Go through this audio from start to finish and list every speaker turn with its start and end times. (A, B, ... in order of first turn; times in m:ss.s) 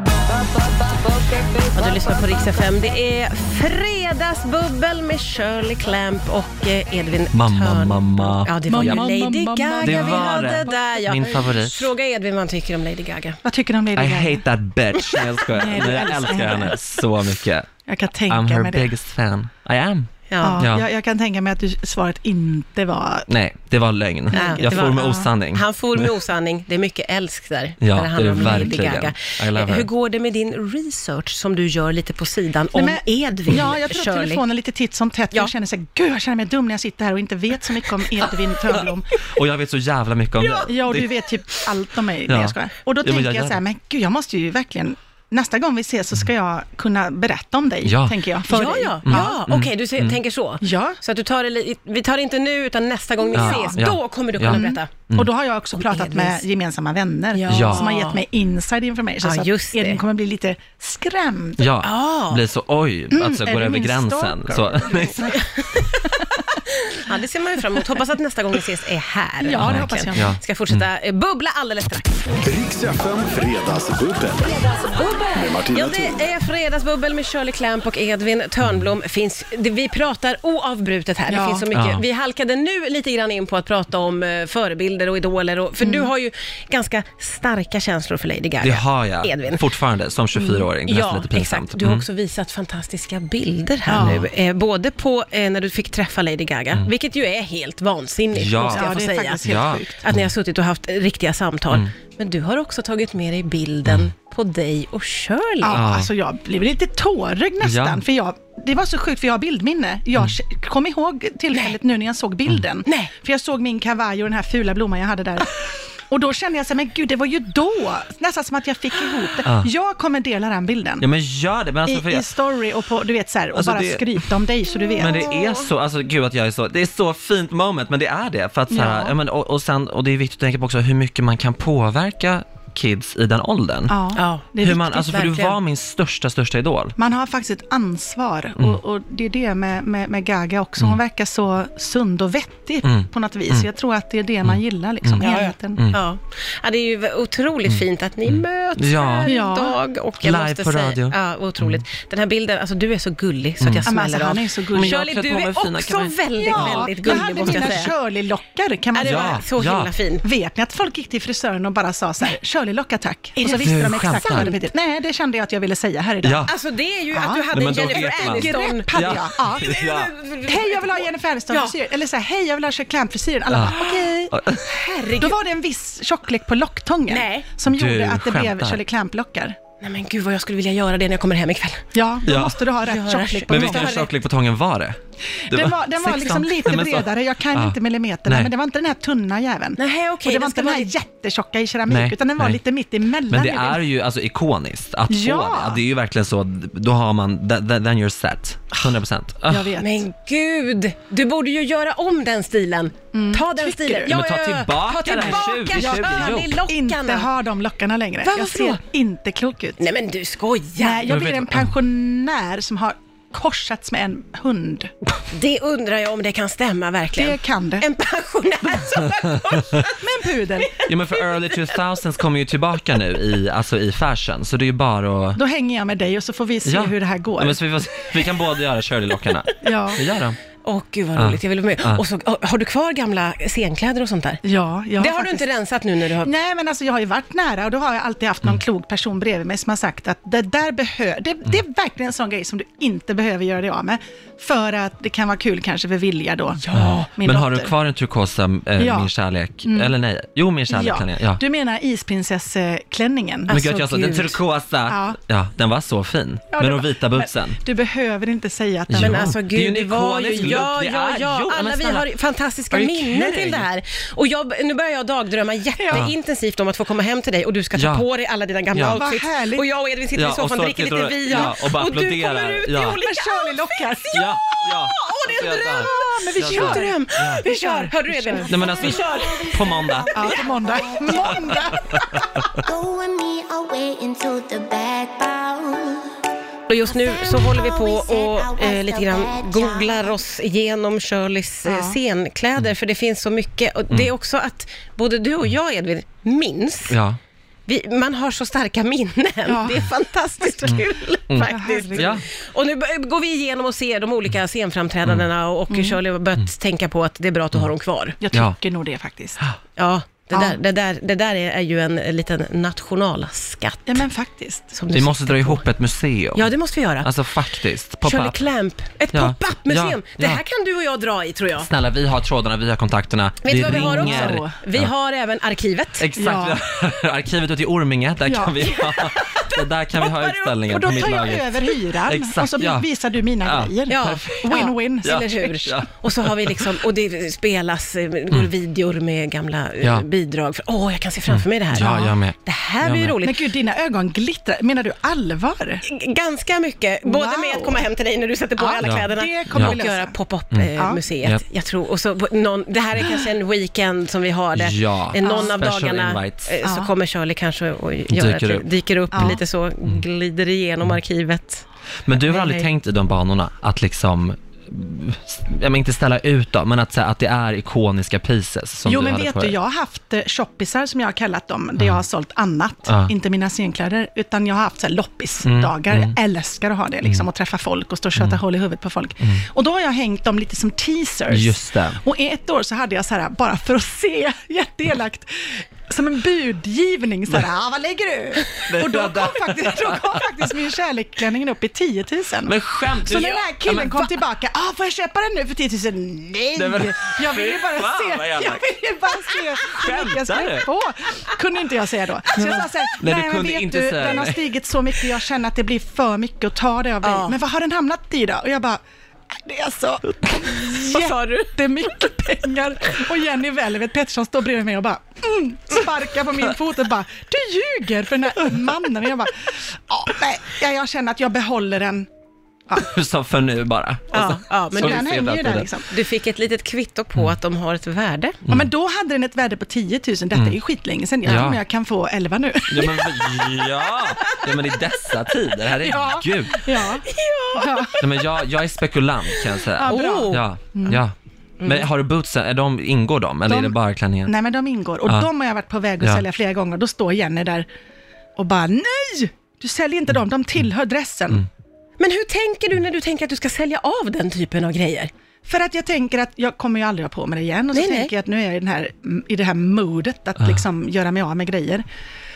0:00.6-0:01.6 A
0:01.7-0:13.4 B
0:07.3-0:09.0 C
0:08.7-0:11.5 D
0:09.8-0:11.9 C
0:13.4-0:14.4 D
0:14.0-0:17.7 C
0:15.5-0:16.8 D
0:17.9-0:18.9 D
0:18.3-0:20.9 C
0:20.3-0:20.6 B
0:20.4-0:23.3 D
0:23.3-0:26.1 C
0:24.3-0:25.3 D
0:24.3-0:34.4 B
0:27.8-0:29.9 C
0:32.8-0:39.2 D
0:38.7-0:41.2 C
0:40.4-0:40.7 B
0:40.6-0:49.4 D
0:42.3-0:43.6 C
0:47.8-0:48.2 C
0:48.5-0:54.9 B
0:49.1-0:50.2 C
0:50.6-0:51.0 D
0:53.3-0:53.8 D
0:53.3-0:55.3 C
0:54.5-1:01.7 D
0:55.8-0:56.4 B
0:57.3-0:58.2 B
0:57.5-0:57.9 C
0:59.2-1:00.0 B
1:01.6-1:05.4 C
1:01.8-1:02.4 B
1:03.1-1:05.4 D
1:05.3-1:12.4 B
1:09.4-1:10.4 D
1:09.6-1:10.9 C
1:12.4-1:16.2 E
1:14.9-1:29.6 B
1:21.3-1:21.7 D
1:21.7-1:22.0 C
1:25.8-1:26.1 D
1:28.6-1:32.1 C
1:30.5-1:39.4 B
1:33.9-1:34.2 D
1:33.9-1:34.3 C
1:38.3-1:40.3 C
1:38.7-1:40.0 D
1:40.0-1:45.8 B
1:45.6-2:01.1 D
1:45.7-1:46.1 C
1:47.6-1:48.0 C
1:52.8-1:53.1 B
1:59.4-1:59.7 C
2:01.0-2:02.3 C
2:01.9-2:05.3 D
2:03.5-2:04.3 C
2:05.0-2:14.0 C
2:05.0-2:05.7 B
2:08.7-2:09.2 D
2:13.9-2:15.3 D
2:14.1-2:15.6 B
2:14.6-2:17.0 C
2:17.0-2:25.9 D
2:22.8-2:23.7 C
2:24.4-2:26.0 C
2:25.2-2:37.9 B
2:27.7-2:29.3 C
2:29.2-2:29.8 D
2:30.2-2:31.8 C
2:33.6-2:33.9 C
2:33.9-2:35.0 D
2:34.7-2:37.9 C
2:36.4-2:39.4 D
2:38.9-2:40.2 B
2:39.0-2:39.9 C
2:40.2-2:46.5 D
2:43.4-2:44.6 B
2:43.5-2:44.5 C
2:46.2-2:46.5 C
2:46.5-2:51.8 B
2:47.1-2:49.9 D
2:47.5-2:50.1 C
2:50.4-2:54.3 D
2:53.5-2:53.8 C
2:53.7-2:55.4 B
2:54.3-2:54.6 C
2:55.1-2:59.6 D
2:57.1-2:57.5 B
2:57.7-2:58.8 C
2:59.8-3:01.8 B
3:01.9-3:04.0 D
3:02.2-3:02.7 C
3:02.8-3:04.1 B
3:03.5-3:05.0 C
3:05.4-3:13.8 D
3:05.5-3:08.5 C
3:09.8-3:10.9 B
3:11.9-3:12.6 C
3:13.3-3:19.7 C
3:15.1-3:15.8 D
3:19.5-3:20.0 D
3:19.8-3:27.3 B
3:23.1-3:24.2 D
3:24.0-3:26.6 C
3:25.2-3:29.8 D
3:28.2-3:28.8 B
3:29.8-3:31.1 B
3:30.8-3:34.9 D
3:31.1-3:31.7 C
3:35.3-3:41.8 B
3:37.2-3:37.9 D
3:38.8-3:39.4 C
3:39.9-3:40.8 D
3:40.9-3:45.4 C
3:45.4-3:47.6 D
3:46.6-3:50.4 C
3:49.6-3:50.0 D
3:50.6-3:54.4 B
3:51.2-3:52.0 C
3:54.4-3:55.5 D
3:55.0-3:56.3 B
3:56.2-4:07.7 D
4:06.6-4:07.1 B
4:06.7-4:11.4 C
4:08.8-4:09.1 D
4:09.6-4:09.9 D
4:10.7-4:13.6 D
4:13.5-4:14.4 B
4:13.5-4:17.6 C
4:14.9-4:15.2 D
4:16.5-4:19.3 D
4:18.9-4:22.1 C
4:19.0-4:34.2 B
4:22.7-4:23.7 C
4:25.8-4:26.1 D
4:27.8-4:28.0 C
4:28.7-4:29.0 C
4:28.9-4:29.7 D
4:30.2-4:33.0 C
4:31.3-4:31.5 D
4:32.8-4:34.7 D
4:34.1-4:37.4 C
4:34.9-4:39.5 B
4:35.4-4:38.9 D
4:38.5-4:40.3 C
4:38.5-4:41.7 A
4:40.1-4:42.5 D
4:41.1-4:42.6 C
4:42.6-4:46.2 A
4:46.7-4:57.0 B
4:46.8-4:50.2 A
4:51.6-4:52.0 D
4:56.9-4:57.2 C
4:57.7-5:08.2 B
4:59.5-5:02.2 D
5:00.7-5:02.2 C
5:05.7-5:06.0 D
5:08.2-5:09.4 D
5:09.8-5:14.0 B
5:10.3-5:10.6 D
5:13.9-5:14.8 D
5:14.7-5:15.6 B
5:14.9-5:18.4 C
5:16.4-5:17.1 B
5:18.0-5:21.7 B
5:19.1-5:20.4 C
5:21.6-5:24.9 C
5:23.4-5:26.1 B
5:23.5-5:24.6 D
5:26.0-5:32.9 C
5:26.2-5:26.6 D
5:28.2-5:29.2 D
5:28.6-5:31.4 B
5:30.7-5:35.8 D
5:33.4-5:34.5 C
5:33.9-5:43.5 B
5:35.0-5:36.8 C
5:41.3-5:43.2 C
5:41.8-5:42.1 D
5:43.2-5:45.8 D
5:45.8-6:01.6 B
5:47.0-5:47.9 D
5:48.6-5:50.2 D
5:48.8-5:49.8 C
5:54.6-5:56.5 C
5:55.2-5:55.5 D
5:56.6-5:56.9 D
5:58.1-6:00.0 C
5:59.1-5:59.4 D
6:02.1-6:09.6 C
6:02.3-6:02.6 B
6:08.8-6:48.8 D
6:12.9-6:13.1 C
6:15.4-6:16.2 C
6:21.3-6:22.0 C
6:28.7-6:30.4 C
6:32.4-6:34.1 C
6:36.6-6:38.8 C
6:39.6-6:40.7 C
6:42.4-6:44.4 C
6:47.0-6:47.4 B
6:49.3-7:02.1 D
6:50.5-6:52.0 B
7:02.8-7:05.7 C
7:04.1-7:05.1 B
7:04.7-7:05.9 D
7:05.9-7:08.4 B
7:08.5-7:13.7 D
7:11.2-7:11.6 C
7:12.7-7:16.6 C
7:14.2-7:14.5 B
7:15.8-7:18.0 D
7:15.8-7:16.2 B
7:17.0-7:18.3 B
7:18.0-7:24.3 C
7:19.4-7:20.5 B
7:19.8-7:21.0 D
7:21.6-7:21.8 B
7:23.5-7:27.7 D
7:28.4-7:31.5 D
7:32.0-7:35.1 B
7:35.4-7:41.8 D
7:37.7-7:38.1 B